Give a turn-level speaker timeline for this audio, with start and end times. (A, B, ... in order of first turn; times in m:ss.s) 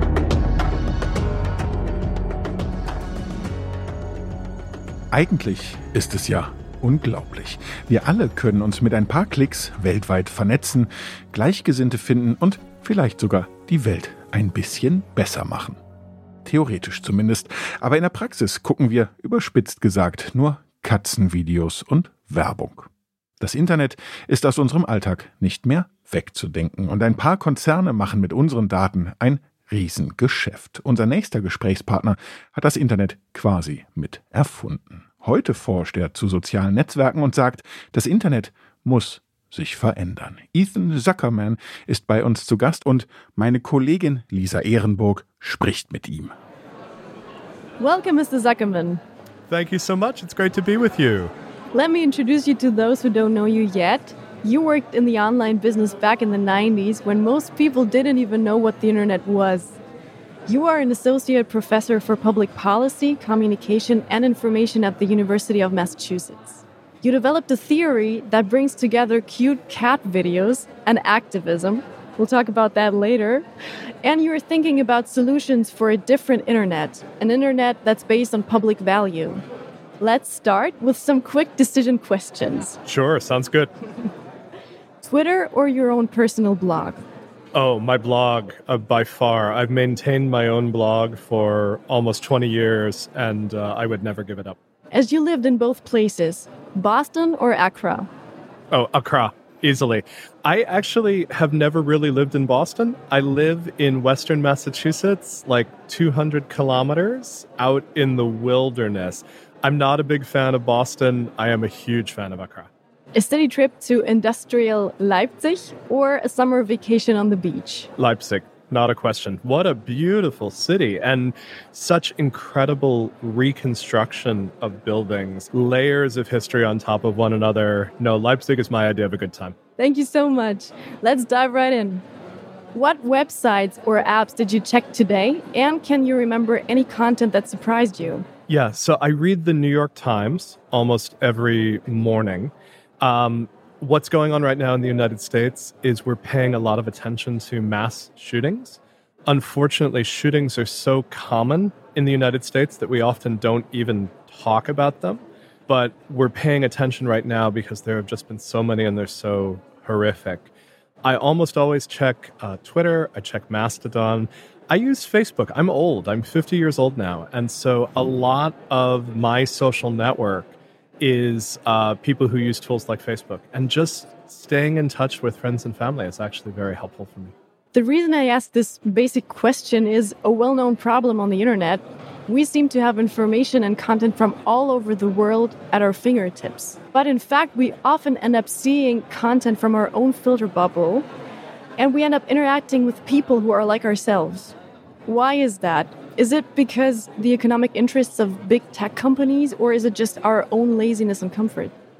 0:05.1-0:15.8 A
0:16.4-0:22.9 A
0:23.4-0:46.3 A
0:47.8-0:49.0 B
0:49.5-0:51.3 C
0:51.7-0:59.8 B
1:00.5-1:13.5 B
1:14.0-1:19.4 B
1:20.0-1:22.8 B
1:22.8-1:23.7 C
1:25.0-1:27.0 B
1:27.5-1:34.6 C
1:34.9-1:38.1 B
1:38.7-1:52.7 C
1:53.1-1:57.9 B
1:58.0-2:09.6 C
2:09.8-2:12.0 B
2:12.7-2:18.3 B
2:18.5-2:40.5 C
2:41.0-2:57.3 C
2:57.7-3:11.1 B
3:11.8-3:14.6 B
3:15.1-3:21.7 B